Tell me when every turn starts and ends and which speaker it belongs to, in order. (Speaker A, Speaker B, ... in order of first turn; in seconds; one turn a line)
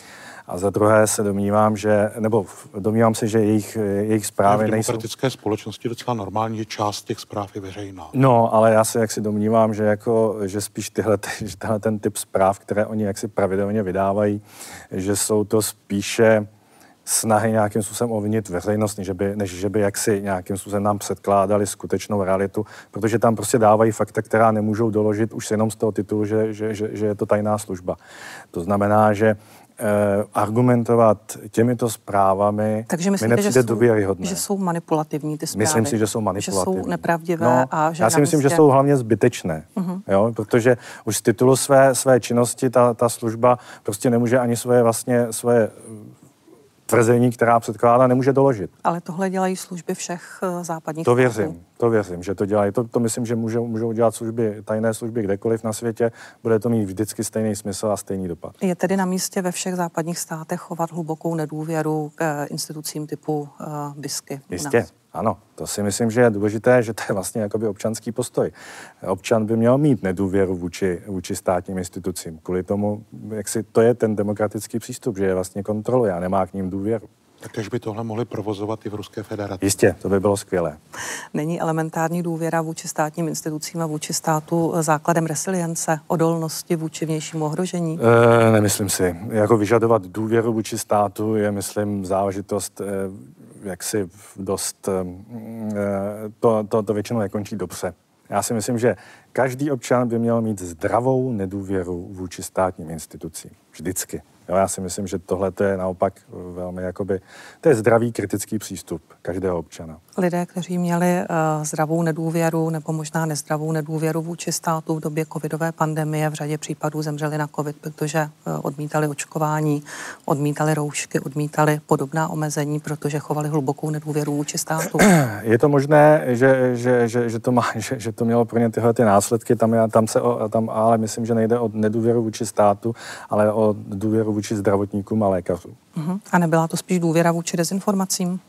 Speaker A: 0.5-5.0
Speaker B: 4.5-8.1
Speaker A: 8.1-16.5
Speaker A: 17.1-28.0
Speaker A: 28.5-34.4
Speaker C: 32.9-38.6
Speaker A: 35.5-46.1
Speaker C: 39.8-40.0
Speaker A: 46.9-48.7
Speaker C: 48.8-51.6
Speaker A: 51.0-58.5
Speaker C: 58.6-64.8
Speaker A: 64.5-77.0
Speaker B: 77.4-79.7
Speaker A: 79.6-80.8
Speaker C: 81.3-88.0
Speaker A: 88.0-110.0
Speaker C: 110.2-125.0
Speaker A: 125.0-135.8
Speaker C: 135.9-138.4